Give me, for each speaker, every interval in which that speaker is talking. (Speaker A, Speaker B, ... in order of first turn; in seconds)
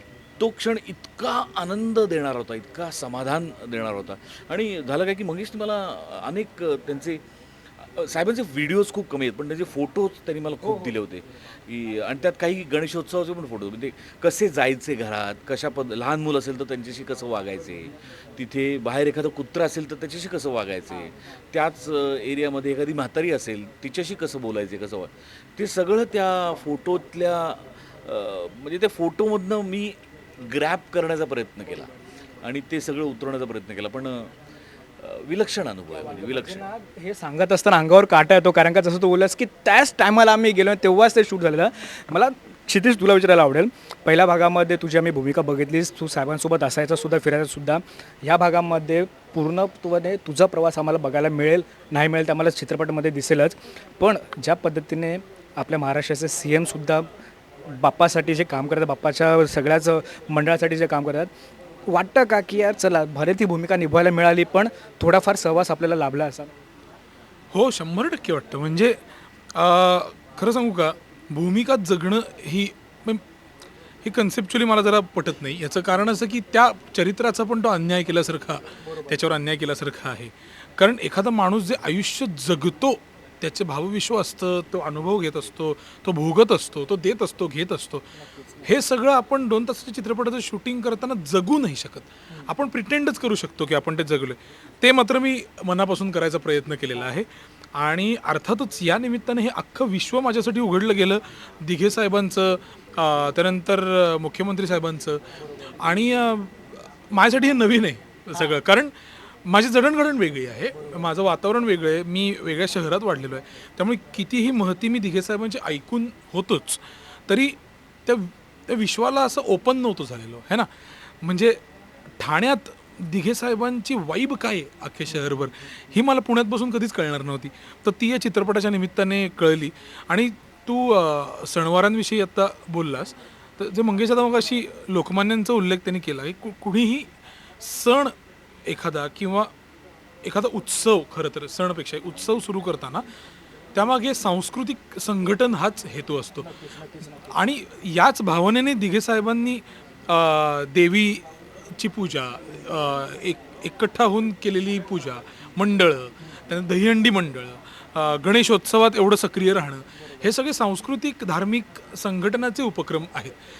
Speaker A: 0.4-7.2, 7.8-31.9, 32.4-34.3, 35.0-36.6
Speaker B: 36.0-57.1, 57.6-61.3, 61.9-66.5, 78.8-79.2, 88.3-88.7, 146.4-147.4
Speaker C: 67.5-69.0, 69.5-73.2, 74.0-88.0, 88.7-105.2, 105.8-108.9, 109.4-120.7, 121.2-121.6, 122.2-138.2, 138.7-139.5, 140.2-143.1, 143.7-146.5, 147.3-151.2, 151.8-163.4